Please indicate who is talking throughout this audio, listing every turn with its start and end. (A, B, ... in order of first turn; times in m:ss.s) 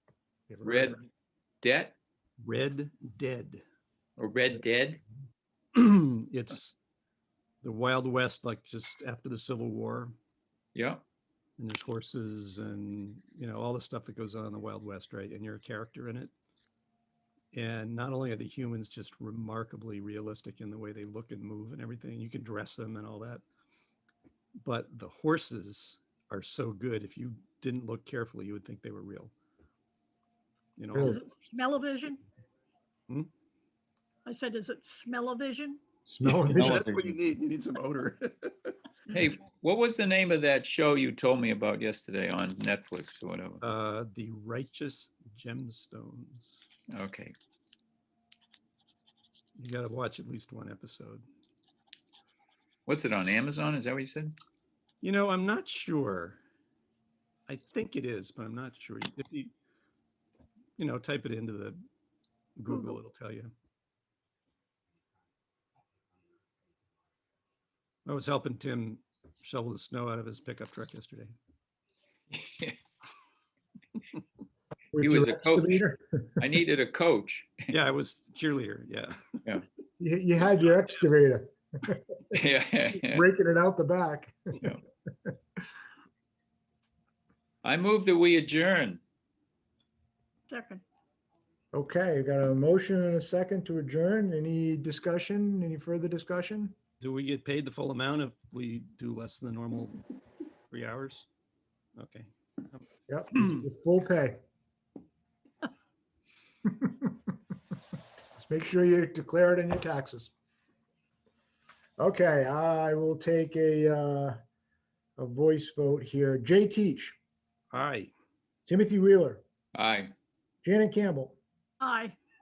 0:00.5-0:01.0 A
0:00.6-0:01.0 B
0:01.6-0:02.0 B
0:02.4-0:03.6 A
0:04.2-0:05.0 B
0:05.7-0:06.8 A
0:07.6-0:10.1 A
0:10.7-0:11.0 B
0:11.6-0:16.3 A
0:17.5-0:23.4 A
0:24.6-0:29.3 A
0:30.8-0:31.2 A
0:30.9-0:31.2 C
0:31.0-0:32.2 D
0:34.3-0:35.8 D
0:36.0-0:37.1 C
0:36.2-0:38.8 A
0:39.1-0:43.6 B
0:43.6-0:46.6 A
0:46.9-0:47.3 B
0:49.6-0:51.2 A
0:52.9-0:54.4 B
0:55.0-0:56.4 A
0:57.5-0:59.5 A
1:00.8-1:01.8 A
1:02.6-1:03.5 A
1:02.7-1:03.0 D
1:08.0-1:11.3 A
1:12.3-1:12.8 B
1:14.9-1:16.4 C
1:15.0-1:15.8 B
1:16.4-1:17.7 B
1:17.7-1:19.4 A
1:20.0-1:22.3 C
1:22.3-1:23.2 B
1:23.0-1:24.7 C
1:27.6-1:29.0 B
1:30.5-1:30.8 D
1:31.7-1:36.7 C
1:37.0-1:40.0 A
1:40.7-1:41.3 A
1:42.0-1:42.8 A
1:43.1-1:44.4 C
1:46.6-1:47.1 C
1:48.4-1:50.3 C
1:52.0-1:54.4 C
1:55.2-1:57.2 C
1:57.7-1:58.1 A
1:58.7-1:59.4 C
1:59.7-2:00.1 B
2:00.6-2:01.4 C
2:01.8-2:02.2 D